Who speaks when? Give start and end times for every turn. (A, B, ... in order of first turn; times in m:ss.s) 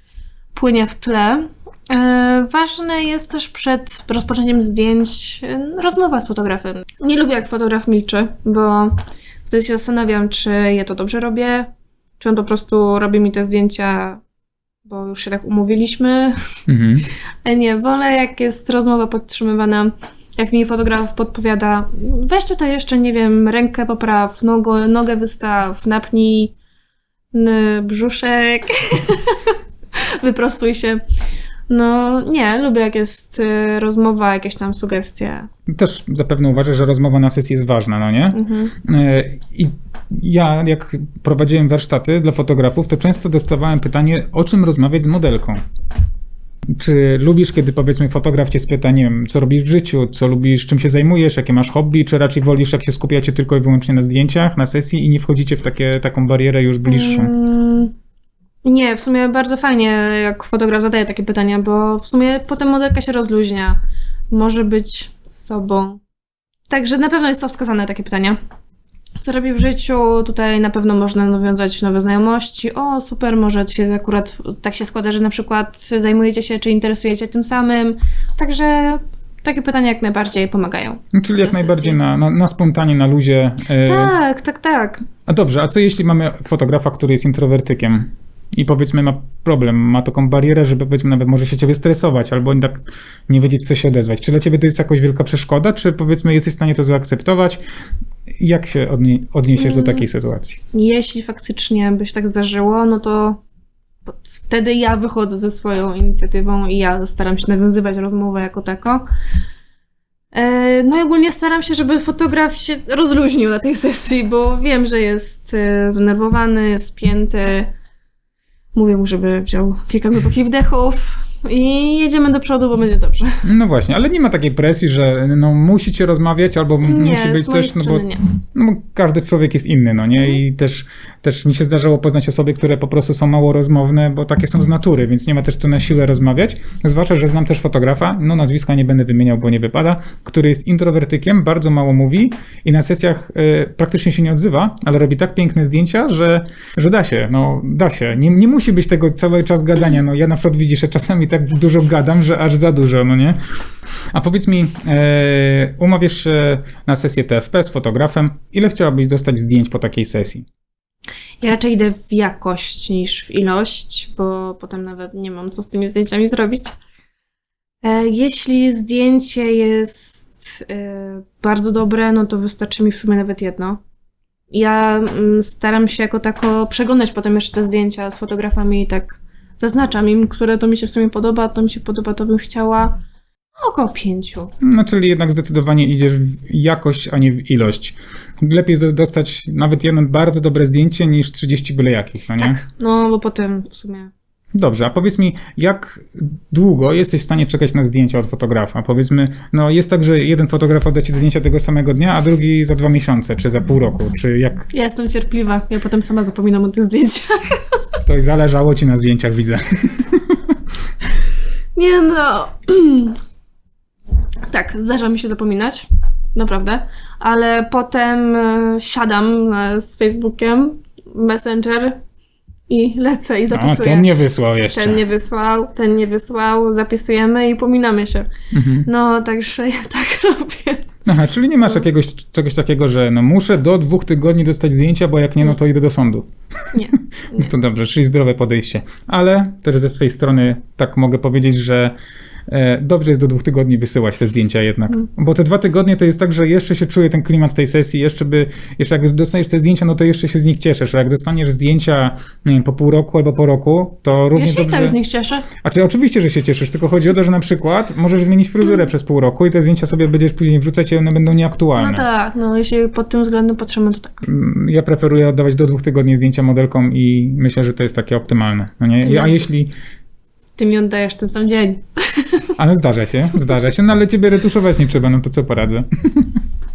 0:00.5-0:14.2 A
0:14.8-0:16.4 A
0:16.7-0:17.1 B
0:17.4-0:26.5 A
0:27.3-0:31.0 A
0:31.7-0:35.5 A
0:35.7-0:45.6 B
0:38.3-0:38.7 A
0:46.7-0:57.3 B
0:56.8-0:57.9 A
0:58.6-1:03.8 A
1:04.3-1:06.0 A
1:06.7-1:08.4 A
1:09.2-1:22.0 A
1:21.1-1:24.1 B
1:23.8-1:25.0 A
1:25.3-1:37.6 B
1:38.4-1:40.6 B
1:39.6-1:40.0 A
1:40.7-1:43.4 A
1:44.1-1:49.0 A
1:50.3-1:57.7 A
1:58.7-2:03.4 A
2:03.4-2:33.4 B
2:06.8-2:08.2 A
2:34.1-2:40.5 B
2:41.4-2:46.8 A
2:47.8-2:53.8 A
2:54.5-3:03.0 A
3:03.6-3:04.5 A
3:04.6-3:12.6 B
3:12.4-3:14.1 A
3:14.5-3:24.7 B
3:24.7-3:28.0 A
3:28.0-3:30.5 B
3:31.8-3:33.2 A
3:34.5-3:42.0 A
3:42.7-3:44.1 A
3:43.5-3:45.0 B
3:44.7-3:48.3 A
3:48.5-3:48.9 B
3:48.8-3:50.9 A
3:51.0-4:01.9 B
3:56.7-3:57.5 A
4:02.5-4:15.0 B
4:14.3-4:15.5 A
4:15.6-4:22.0 B
4:21.8-4:24.2 A
4:24.2-4:29.7 B
4:29.0-4:29.4 A
4:30.6-4:32.5 A
4:32.6-4:36.4 B